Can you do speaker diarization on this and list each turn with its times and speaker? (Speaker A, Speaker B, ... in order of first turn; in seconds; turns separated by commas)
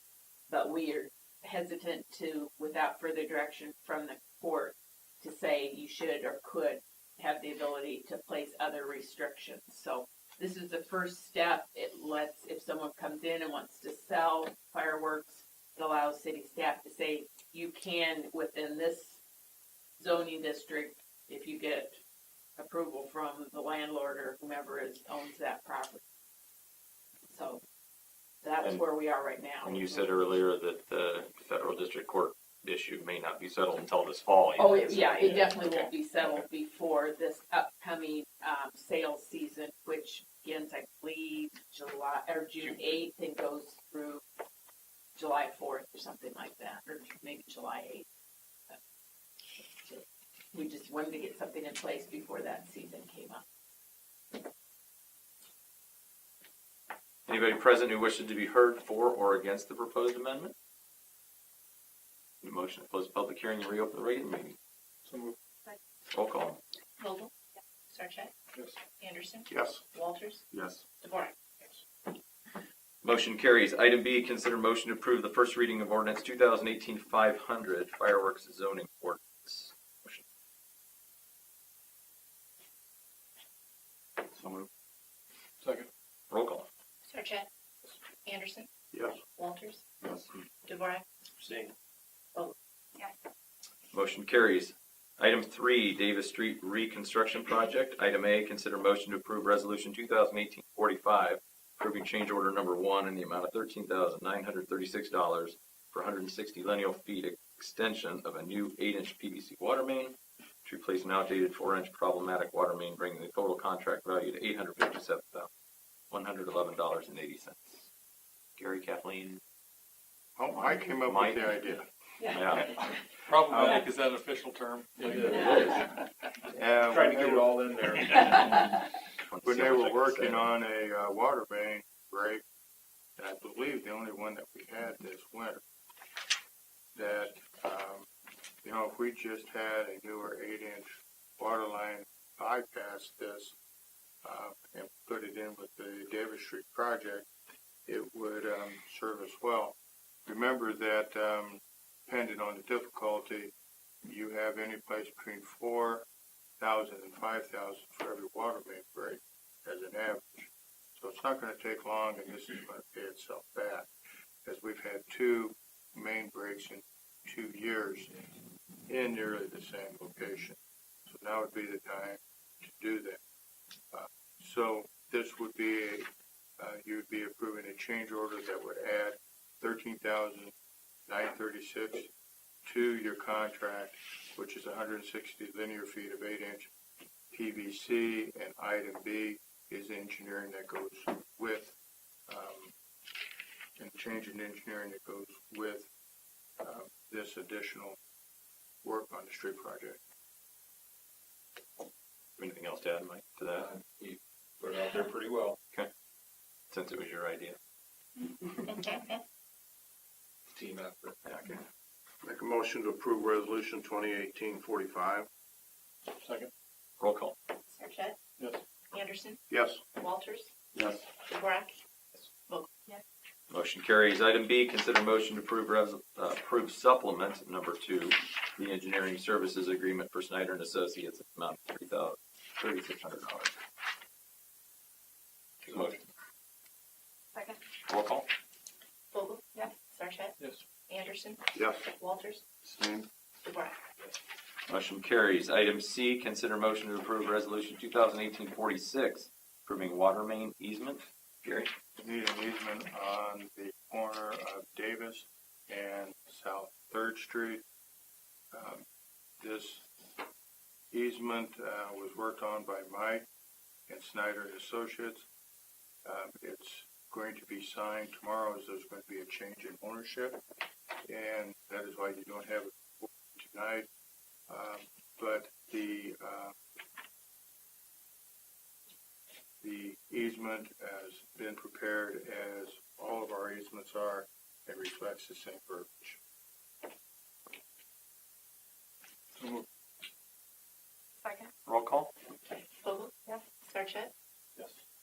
Speaker A: 0.5-19.2, Speaker A: 20.0-21.9, Speaker A: 22.6-26.0, Speaker A: 27.3-27.6, Speaker A: 28.4-30.2, Speaker B: 29.6-36.4, Speaker A: 34.5-44.2, Speaker B: 42.6-42.9, Speaker A: 45.1-48.0, Speaker A: 49.6-53.4, Speaker B: 57.3-60.5, Speaker B: 62.4-64.6, Speaker C: 65.1-65.3, Speaker B: 66.1-66.6, Speaker D: 67.0-67.3, Speaker D: 67.9-68.3, Speaker D: 69.0-70.4, Speaker D: 71.0-71.3, Speaker B: 73.0-80.2, Speaker C: 85.6-85.9, Speaker B: 86.3-86.7, Speaker D: 87.0-87.5, Speaker D: 88.2-88.7, Speaker D: 89.3-89.9, Speaker D: 90.6-91.0, Speaker D: 92.3-93.1, Speaker B: 93.9-115.5, Speaker B: 116.1-117.9, Speaker B: 118.6-119.4, Speaker E: 120.3-121.9, Speaker B: 120.5-121.6, Speaker B: 122.2-122.8, Speaker C: 123.2-125.8, Speaker B: 125.1-125.9, Speaker E: 126.5-128.3, Speaker C: 126.9-128.6, Speaker B: 128.4-130.5, Speaker E: 129.4-132.4, Speaker E: 133.2-135.6, Speaker E: 136.9-138.1, Speaker E: 138.6-143.5, Speaker E: 144.2-147.3, Speaker E: 147.8-153.5, Speaker E: 154.0-156.1, Speaker E: 156.6-163.9, Speaker E: 164.4-168.2, Speaker E: 168.9-173.2, Speaker E: 173.9-176.1, Speaker E: 176.6-180.5, Speaker E: 181.1-182.1, Speaker E: 182.6-186.7, Speaker E: 187.3-191.7, Speaker E: 192.3-192.7, Speaker E: 193.8-195.9, Speaker E: 196.6-198.0, Speaker E: 198.8-200.0, Speaker B: 202.4-203.7, Speaker C: 203.6-205.5, Speaker B: 206.7-207.6, Speaker D: 208.7-209.2, Speaker C: 210.6-211.2, Speaker B: 211.2-211.6, Speaker F: 212.2-215.3, Speaker C: 216.2-216.5, Speaker B: 217.0-217.3, Speaker D: 217.7-218.2, Speaker D: 218.9-219.4, Speaker F: 219.5-219.8, Speaker D: 219.9-220.5, Speaker B: 220.8-221.0, Speaker D: 221.2-221.8, Speaker D: 222.5-222.7, Speaker B: 223.5-233.5, Speaker B: 235.6-236.0, Speaker B: 237.9-238.3, Speaker D: 239.1-240.3, Speaker D: 240.9-242.4, Speaker F: 241.5-241.8, Speaker F: 242.7-243.1, Speaker D: 243.4-243.8, Speaker B: 244.7-251.7, Speaker E: 252.0-257.6, Speaker E: 258.5-258.8, Speaker E: 259.4-259.9, Speaker E: 260.9-263.2, Speaker E: 263.9-265.2, Speaker E: 266.0-270.4, Speaker E: 271.0-273.9, Speaker E: 274.5-276.6, Speaker E: 279.6-286.2, Speaker C: 289.4-289.6, Speaker B: 291.6-292.1, Speaker D: 292.5-294.1